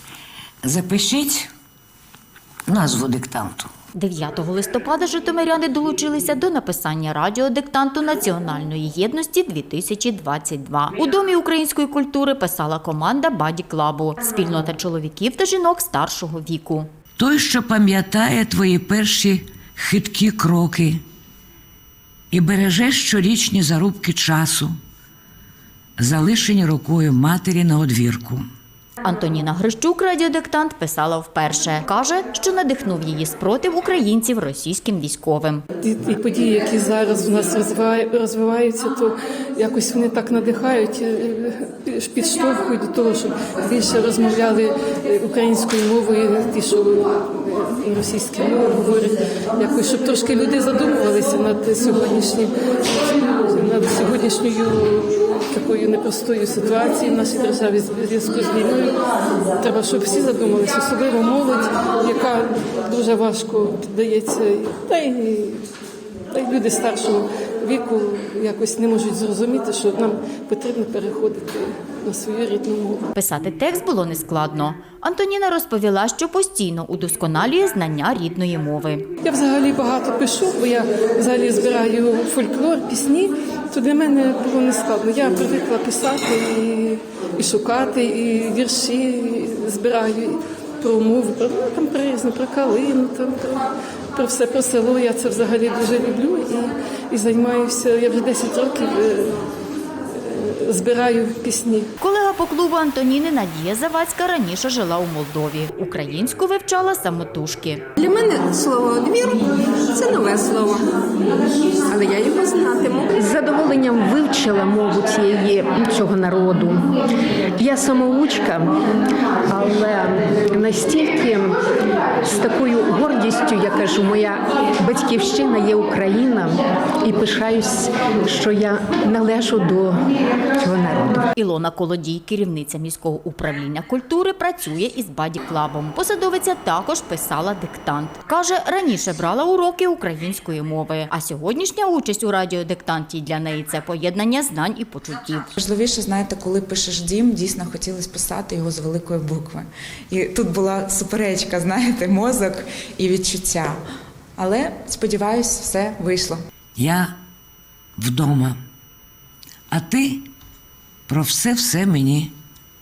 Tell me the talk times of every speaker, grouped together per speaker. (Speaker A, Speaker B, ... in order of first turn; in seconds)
Speaker A: 0.6-1.5, 2.7-3.7, 17.2-21.0, 22.3-24.7, 26.0-28.4, 156.8-157.2, 158.0-158.6, 159.7-160.3, 161.1-162.3
Speaker B: 4.0-16.9, 29.0-35.6, 73.2-79.1, 102.0-107.8, 131.4-145.5
Speaker C: 35.8-59.0, 59.6-65.7, 66.3-73.1, 79.2-99.4, 100.1-101.9
Speaker D: 108.0-110.9, 111.9-113.1
Speaker E: 113.2-116.8, 117.6-118.7, 119.5-121.6, 122.2-130.1, 130.6-131.2
Speaker F: 145.6-153.8, 154.4-156.4